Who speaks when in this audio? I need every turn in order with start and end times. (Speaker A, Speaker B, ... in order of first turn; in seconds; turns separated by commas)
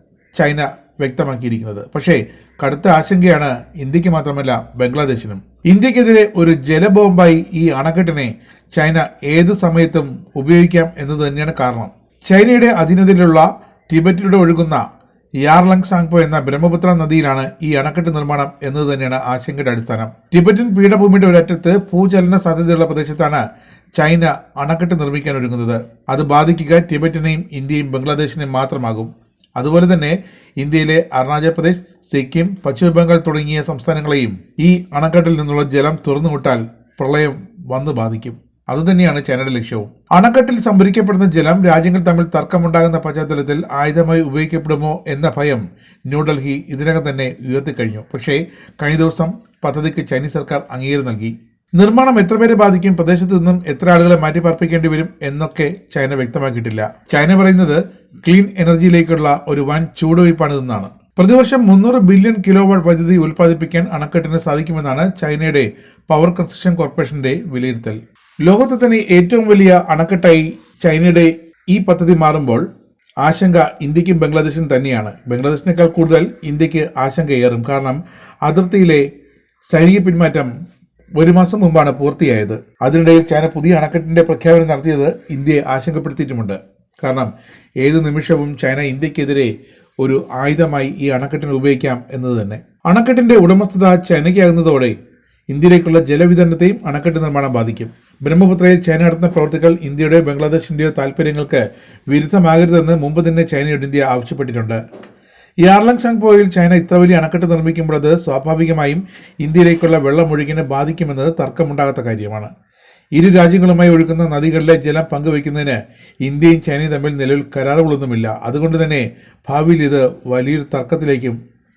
Speaker A: 0.4-14.8, Speaker A: 15.4-23.4, Speaker A: 24.0-72.6, Speaker A: 73.2-79.0, Speaker A: 79.7-80.5, Speaker A: 81.2-87.3, Speaker A: 87.8-89.5, Speaker A: 90.0-94.9, Speaker A: 95.5-104.8, Speaker A: 105.6-112.5, Speaker A: 113.2-121.4